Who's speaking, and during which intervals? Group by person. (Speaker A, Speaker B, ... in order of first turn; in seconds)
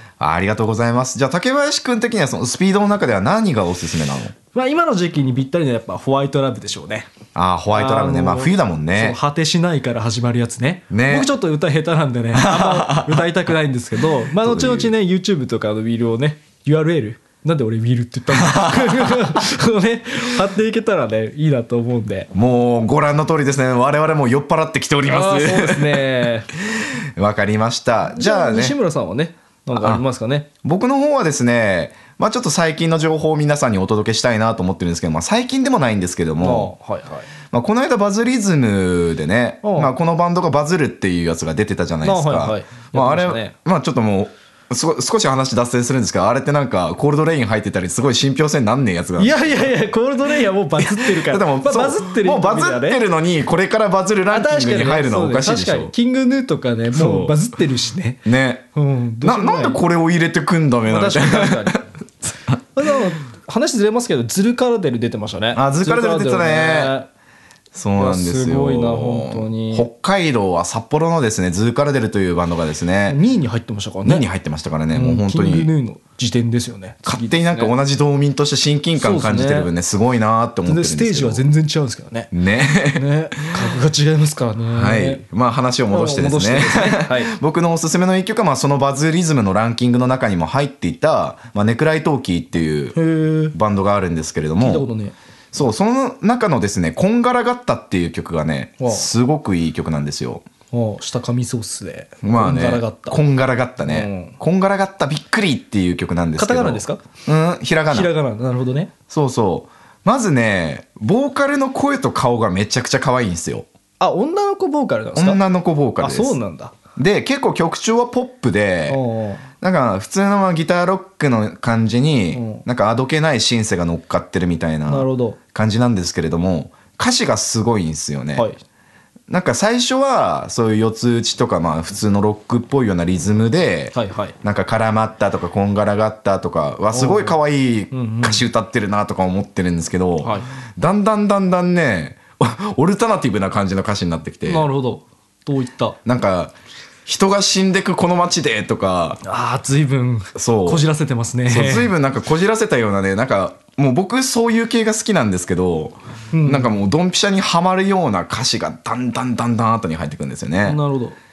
Speaker A: 0.2-4.3, 7.3-9.2, 10.9-11.3, 12.3-13.2, 14.4-14.9, 18.3-19.3, 22.3-26.1, 26.8-28.7, 29.7-30.0, 30.6-36.7, 37.5-49.6, 50.8-55.9, 56.9-57.4, 58.2-58.7, 59.2-61.8, 65.5-66.9, 67.7-73.2, 74.0-75.7, 77.0-81.4, 82.3-83.0, 84.7-93.0, 93.5-94.9, 95.5-100.4, 102.2-108.1, 109.1-113.7, 115.1-116.4, 117.0-119.0, 119.6-128.5, 129.3-144.7, 146.0-146.5, 147.1-149.2, 150.3-150.8, 151.5-160.8
Speaker B: 4.5-7.1, 7.7-22.3, 25.0-26.5, 28.1-30.5, 36.4-37.3, 39.6-39.9, 42.0-43.5, 49.2-53.0, 54.3-59.8, 60.9-61.8, 62.7-67.1, 68.0-69.8, 73.1-74.2, 74.9-77.7, 79.0-79.7, 80.7-82.3, 82.9-85.2, 85.9-87.3, 92.9-93.5, 94.6-95.1, 98.8-99.1, 100.7-103.2, 103.8-104.3, 106.4-107.0, 107.9-108.9, 114.0-115.4, 116.0-116.7, 118.9-119.4, 122.3-122.6, 124.8-125.4, 133.9-134.3, 136.9-137.3, 137.9-138.4, 144.4-146.0, 149.2-151.9, 156.3-156.8, 160.6-161.2